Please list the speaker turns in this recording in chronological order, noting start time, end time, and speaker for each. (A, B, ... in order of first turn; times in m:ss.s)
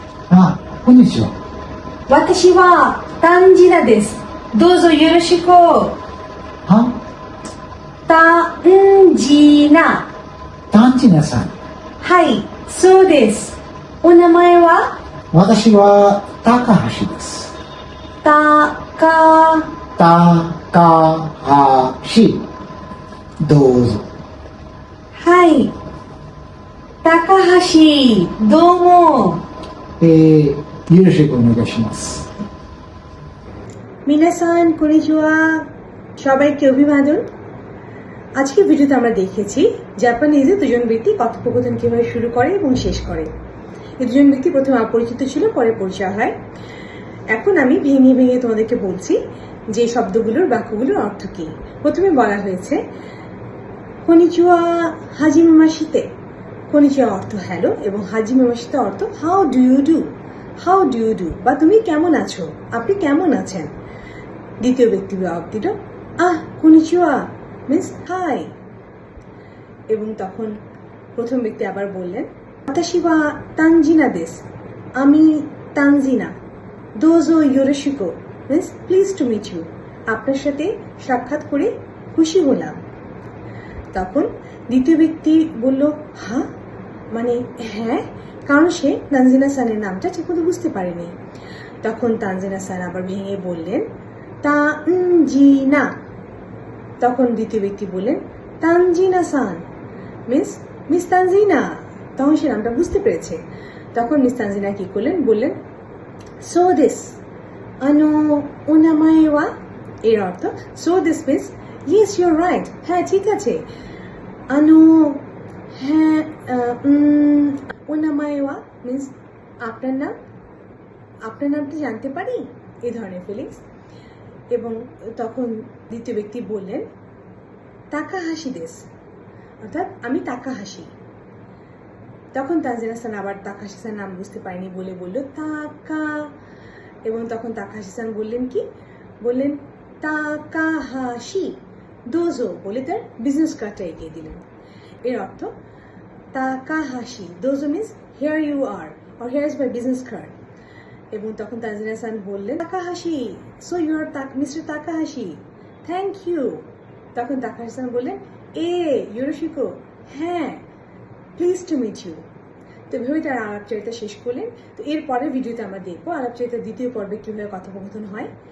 0:00.3-0:01.3 A
0:02.1-0:06.0 B
0:06.6-0:07.0 A
0:08.1-0:10.1 B
0:10.7-0:11.5 A
0:12.0-0:14.9 B
0:15.3-0:17.5 A
0:18.2-0:19.7 B
0:20.0-0:22.4 A
0:23.4-0:24.1 A
0:25.1-0:25.7 B
0:27.0-0:29.4 B
0:30.0-0:32.3 A
0:34.0-0:35.6 B
0:36.2-0:37.2 B
0:38.4-0:43.3 B
0:44.0-0:46.3 B
0:47.3-0:49.2 B
0:49.7-0:52.8 B
0:54.0-0:56.0 B
0:56.7-1:00.1 B
1:00.6-1:03.7 B
1:04.6-1:08.5 B
1:09.9-1:10.5 B
1:11.2-1:14.4 B
1:15.0-1:16.3 B
1:17.0-1:22.8 B
1:23.9-1:26.4 B
1:27.1-1:31.1 B
1:31.8-1:33.8 B
1:34.4-1:35.9 B
1:37.0-1:39.6 B
1:40.3-1:43.4 B
1:43.9-1:45.5 B
1:46.4-1:47.1 B
1:47.8-1:49.5 B
1:50.0-1:53.6 B
1:54.5-1:55.2 B
1:55.7-2:00.1 B
2:01.2-2:03.6 B
2:04.5-2:06.8 B
2:07.9-2:08.8 B
2:09.6-2:10.9 B
2:12.3-2:16.3 B
2:17.0-2:18.6 B
2:19.2-2:21.6 B
2:22.1-2:24.4 B
2:25.0-2:25.5 B
2:26.3-2:30.3 B
2:31.1-2:36.6 B
2:37.1-2:40.6 B
2:41.4-2:42.2 B
2:42.9-2:48.3 B